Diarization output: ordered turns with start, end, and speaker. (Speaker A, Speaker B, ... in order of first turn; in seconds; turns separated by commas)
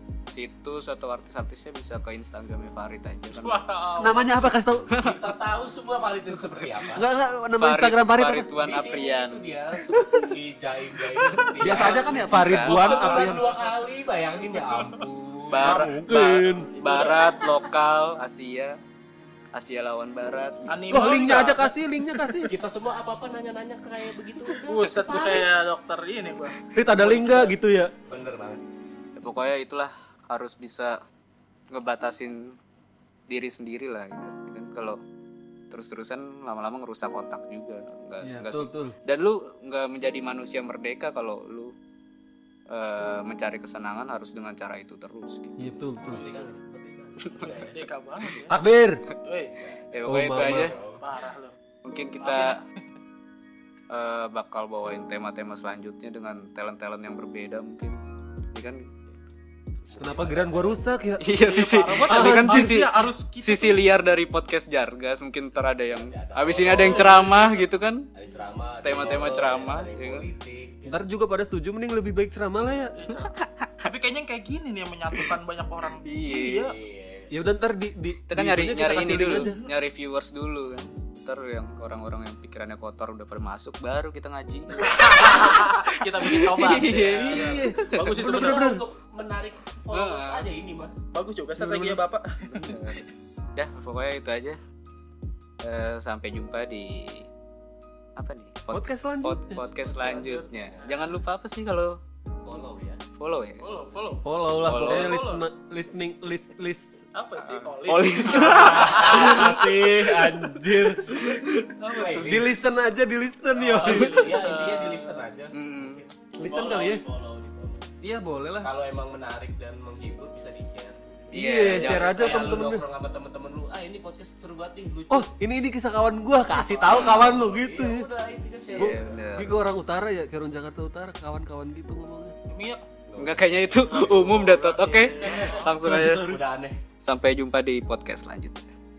Speaker A: 0.3-3.6, Speaker B: 3.3-4.3, Speaker C: 4.0-4.8, Speaker A: 4.9-5.2, Speaker D: 5.0-7.0, Speaker C: 6.9-8.5, Speaker A: 7.6-10.3, Speaker D: 8.6-15.7, Speaker A: 11.2-13.1, Speaker C: 11.6-13.4, Speaker B: 11.7-12.1, Speaker B: 12.8-13.7, Speaker A: 15.5-18.7, Speaker C: 15.6-16.7, Speaker B: 16.7-17.2, Speaker A: 19.5-21.1, Speaker B: 20.7-22.5, Speaker C: 20.9-22.5, Speaker D: 22.5-25.5, Speaker B: 24.5-27.5, Speaker C: 26.7-27.9, Speaker D: 28.1-28.6, Speaker A: 29.2-31.0, Speaker A: 31.7-32.4, Speaker A: 33.3-35.0, Speaker A: 35.7-41.7, Speaker C: 38.2-38.9, Speaker A: 42.7-45.8, Speaker C: 45.6-46.3, Speaker D: 46.0-47.9, Speaker A: 47.2-47.5, Speaker B: 47.4-48.5, Speaker C: 48.5-49.0, Speaker B: 49.2-49.5, Speaker D: 49.5-51.1, Speaker A: 49.9-50.7, Speaker C: 50.1-50.7, Speaker B: 50.8-51.5, Speaker A: 51.8-52.5, Speaker B: 52.2-52.6, Speaker A: 53.9-58.0, Speaker A: 58.5-58.9, Speaker D: 59.9-60.8, Speaker C: 60.0-61.2, Speaker A: 61.2-62.9, Speaker B: 61.3-63.8, Speaker C: 62.1-62.8, Speaker A: 63.4-68.1, Speaker D: 65.9-67.6, Speaker B: 66.9-67.2, Speaker D: 68.1-71.0, Speaker A: 68.8-70.2, Speaker C: 70.9-73.0, Speaker B: 73.0-73.3, Speaker A: 73.1-73.7, Speaker B: 73.8-76.7, Speaker A: 76.0-76.6, Speaker D: 76.7-77.3, Speaker C: 77.3-79.5, Speaker A: 78.3-87.9, Speaker B: 79.0-79.7, Speaker B: 84.8-88.7, Speaker C: 87.2-88.8, Speaker D: 88.2-90.9, Speaker A: 89.9-90.5, Speaker B: 91.1-93.0, Speaker C: 91.5-92.0, Speaker A: 92.5-93.0, Speaker A: 93.5-94.6, Speaker A: 95.6-97.2, Speaker A: 98.2-102.0, Speaker C: 98.7-99.6, Speaker B: 99.8-101.0, Speaker D: 100.5-100.9, Speaker D: 102.4-103.0, Speaker A: 103.2-103.7, Speaker B: 103.6-105.4, Speaker C: 104.2-106.8, Speaker A: 104.6-105.2, Speaker B: 107.1-109.6, Speaker A: 107.4-110.3, Speaker C: 108.5-111.2, Speaker A: 110.9-112.2, Speaker D: 111.9-112.5, Speaker C: 112.1-114.2, Speaker D: 113.7-116.2, Speaker B: 113.7-115.3, Speaker A: 115.5-116.0, Speaker C: 116.4-117.0, Speaker B: 116.4-117.7, Speaker D: 117.4-117.8, Speaker C: 118.0-118.7, Speaker D: 118.6-125.3, Speaker C: 121.3-122.8, Speaker A: 121.3-122.6, Speaker C: 125.1-128.0, Speaker D: 126.5-129.2, Speaker A: 126.9-127.2, Speaker A: 128.8-129.5, Speaker C: 128.8-132.3, Speaker B: 132.5-132.8, Speaker D: 133.1-136.8, Speaker A: 133.2-136.2, Speaker B: 134.3-135.7, Speaker C: 135.8-136.4, Speaker A: 137.0-138.6